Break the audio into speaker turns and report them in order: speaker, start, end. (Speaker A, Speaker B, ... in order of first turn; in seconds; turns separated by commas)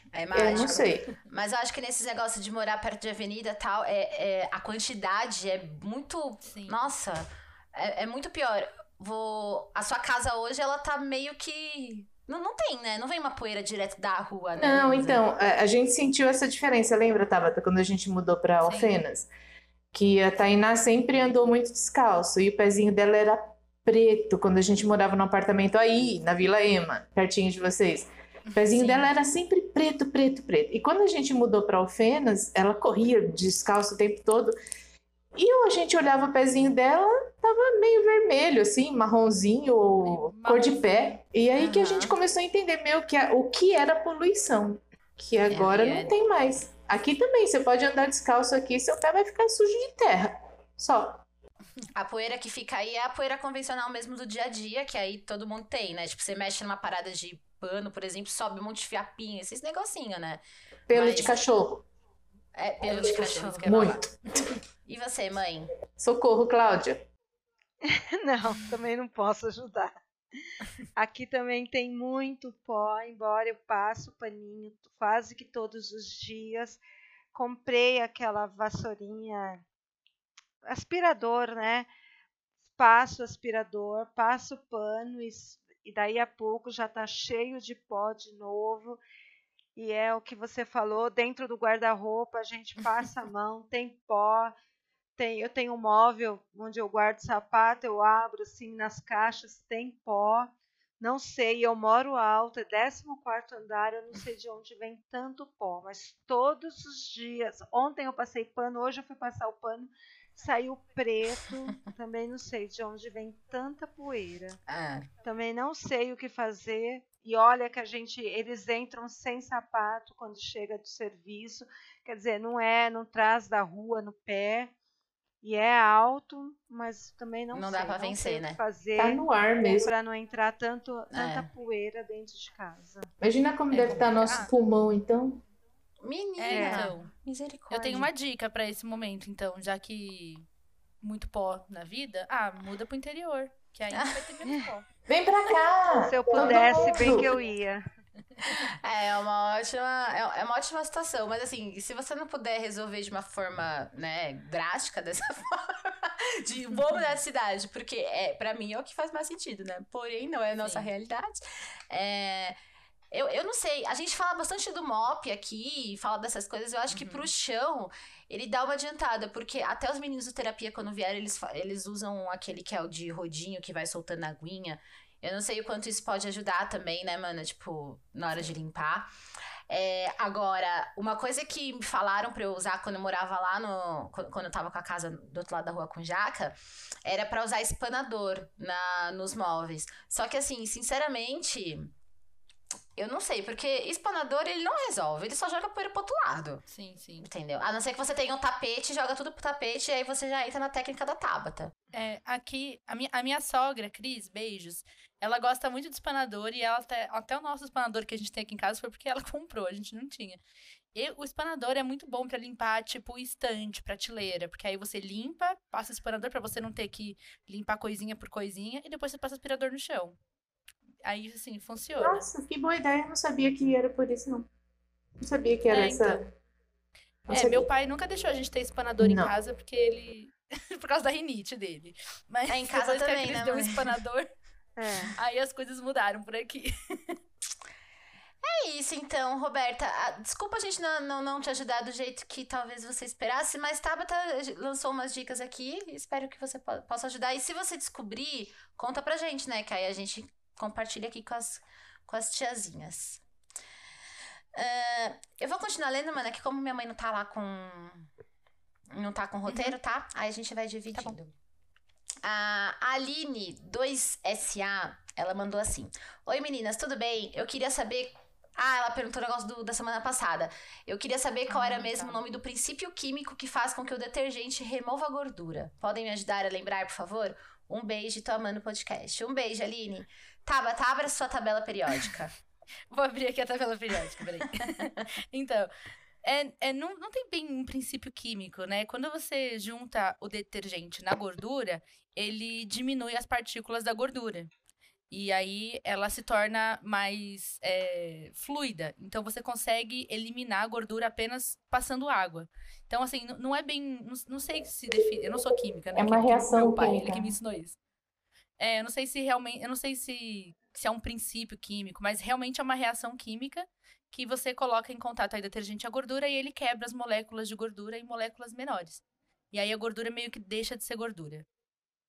Speaker A: 0.1-15.2, Speaker B: 0.3-1.1, Speaker C: 6.5-6.8, Speaker B: 14.6-19.3, Speaker C: 18.6-19.0, Speaker B: 19.9-34.5, Speaker C: 28.5-29.1, Speaker B: 35.4-51.2, Speaker C: 40.0-41.1, Speaker A: 41.5-42.1, Speaker A: 45.5-46.1, Speaker A: 51.9-61.4, Speaker B: 60.9-61.9, Speaker A: 62.5-64.0, Speaker C: 62.9-64.1, Speaker B: 63.0-64.2, Speaker A: 64.9-65.7, Speaker B: 66.0-67.0, Speaker D: 67.8-69.9, Speaker D: 71.0-76.8, Speaker D: 77.3-79.7, Speaker D: 80.6-81.9, Speaker D: 82.8-89.0, Speaker D: 89.8-94.5, Speaker D: 95.2-114.6, Speaker A: 114.7-115.1, Speaker D: 115.2-124.7, Speaker D: 125.4-133.1, Speaker A: 127.5-128.6, Speaker B: 129.0-129.9, Speaker A: 131.1-131.5, Speaker B: 133.2-135.4, Speaker C: 133.7-134.5, Speaker A: 136.0-138.1, Speaker C: 136.4-137.1, Speaker D: 136.5-136.9, Speaker C: 137.7-140.5, Speaker C: 141.0-144.9, Speaker A: 143.9-144.3, Speaker B: 145.1-147.4, Speaker D: 146.1-147.8, Speaker A: 148.4-162.6, Speaker C: 156.7-157.1, Speaker C: 160.6-160.9, Speaker A: 163.1-179.1, Speaker C: 166.9-167.3, Speaker A: 179.7-191.9, Speaker A: 193.0-196.7, Speaker C: 196.7-197.3, Speaker A: 197.2-201.7, Speaker C: 201.9-210.4, Speaker C: 210.9-220.2, Speaker C: 221.0-222.2, Speaker B: 222.0-224.5, Speaker B: 225.2-226.2, Speaker C: 225.7-226.2, Speaker B: 227.3-227.7, Speaker C: 227.3-234.3, Speaker B: 229.0-229.3, Speaker A: 232.5-234.0, Speaker D: 234.8-235.2, Speaker C: 235.2-237.2, Speaker A: 238.4-253.2, Speaker A: 254.6-258.1, Speaker A: 258.9-261.3, Speaker C: 259.5-259.8, Speaker A: 262.2-282.3, Speaker C: 271.5-272.2, Speaker C: 282.9-285.7, Speaker C: 286.2-294.5, Speaker C: 295.1-307.8, Speaker B: 305.9-307.4, Speaker C: 308.6-321.5